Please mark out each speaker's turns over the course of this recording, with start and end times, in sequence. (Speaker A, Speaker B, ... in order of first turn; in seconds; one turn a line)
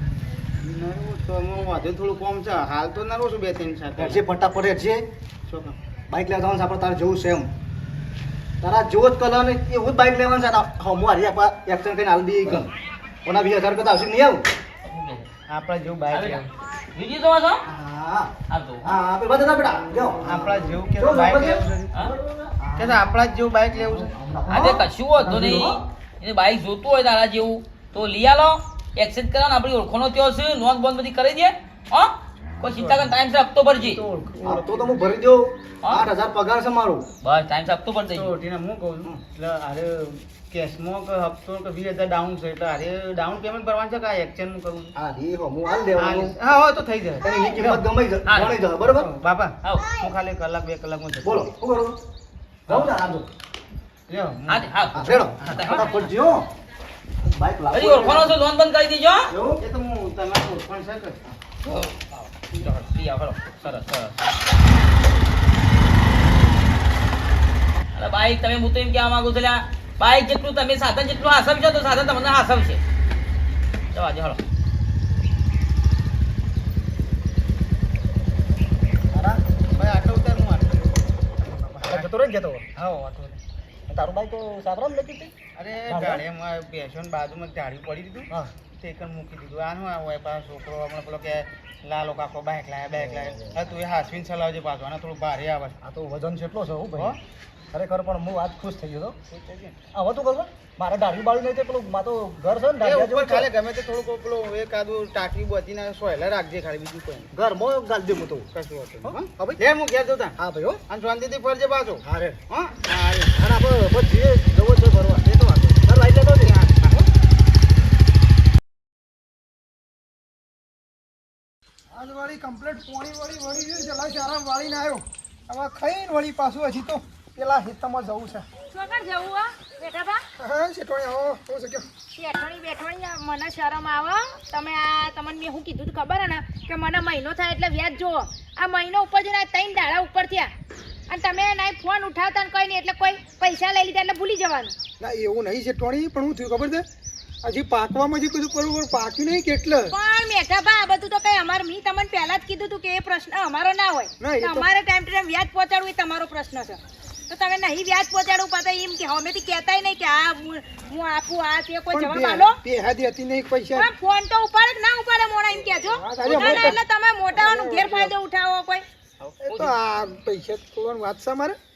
Speaker A: 0.6-4.2
Speaker B: 4.0-5.1
Speaker A: 5.5-5.7
Speaker B: 6.1-7.5
Speaker B: 8.6-12.7
Speaker B: 13.2-14.4
Speaker C: 14.8-15.3
Speaker A: 15.5-16.5
Speaker C: 16.1-16.4
Speaker C: 16.9-17.6
Speaker B: 17.6-23.1
Speaker C: 18.5-18.9
Speaker A: 20.2-22.0
Speaker A: 22.8-24.1
Speaker B: 23.9-25.9
Speaker C: 24.5-34.0
Speaker A: 32.6-33.1
Speaker A: 33.8-34.9
Speaker B: 34.4-37.1
Speaker C: 35.8-36.1
Speaker C: 37.2-38.4
Speaker A: 38.1-44.9
Speaker B: 45.0-46.4
Speaker A: 46.0-47.8
Speaker B: 47.2-49.1
Speaker C: 48.3-48.6
Speaker A: 48.9-51.5
Speaker C: 49.6-50.0
Speaker B: 51.2-52.0
Speaker B: 52.7-53.3
Speaker A: 54.1-54.7
Speaker C: 54.5-56.1
Speaker B: 55.0-56.5
Speaker B: 57.2-58.4
Speaker C: 57.7-59.3
Speaker B: 59.3-59.6
Speaker A: 59.6-61.2
Speaker C: 61.7-62.0
Speaker C: 62.5-64.2
Speaker C: 67.9-72.8
Speaker C: 73.9-74.4
Speaker B: 79.1-79.4
Speaker A: 79.7-82.1
Speaker B: 81.8-82.8
Speaker A: 82.8-83.4
Speaker B: 83.9-85.3
Speaker A: 85.6-95.8
Speaker B: 85.9-86.2
Speaker B: 93.0-93.6
Speaker B: 95.8-97.2
Speaker B: 97.7-99.2
Speaker A: 99.3-99.8
Speaker B: 99.9-103.5
Speaker A: 102.8-107.3
Speaker B: 107.3-108.5
Speaker A: 108.5-110.4
Speaker B: 109.0-109.6
Speaker B: 110.4-110.8
Speaker A: 110.9-113.3
Speaker B: 112.0-112.4
Speaker B: 113.3-115.3
Speaker A: 115.2-115.8
Speaker B: 115.8-116.5
Speaker A: 116.4-117.1
Speaker D: 121.9-128.5
Speaker E: 128.7-130.2
Speaker D: 130.4-131.9
Speaker E: 132.2-140.5
Speaker E: 141.1-144.8
Speaker D: 145.0-146.8
Speaker D: 147.4-149.9
Speaker E: 149.9-162.6
Speaker D: 154.2-154.7
Speaker D: 161.9-163.9
Speaker E: 163.8-168.8
Speaker D: 165.9-166.8
Speaker C: 166.3-166.7
Speaker D: 167.4-168.1
Speaker C: 169.2-169.8
Speaker D: 169.4-171.6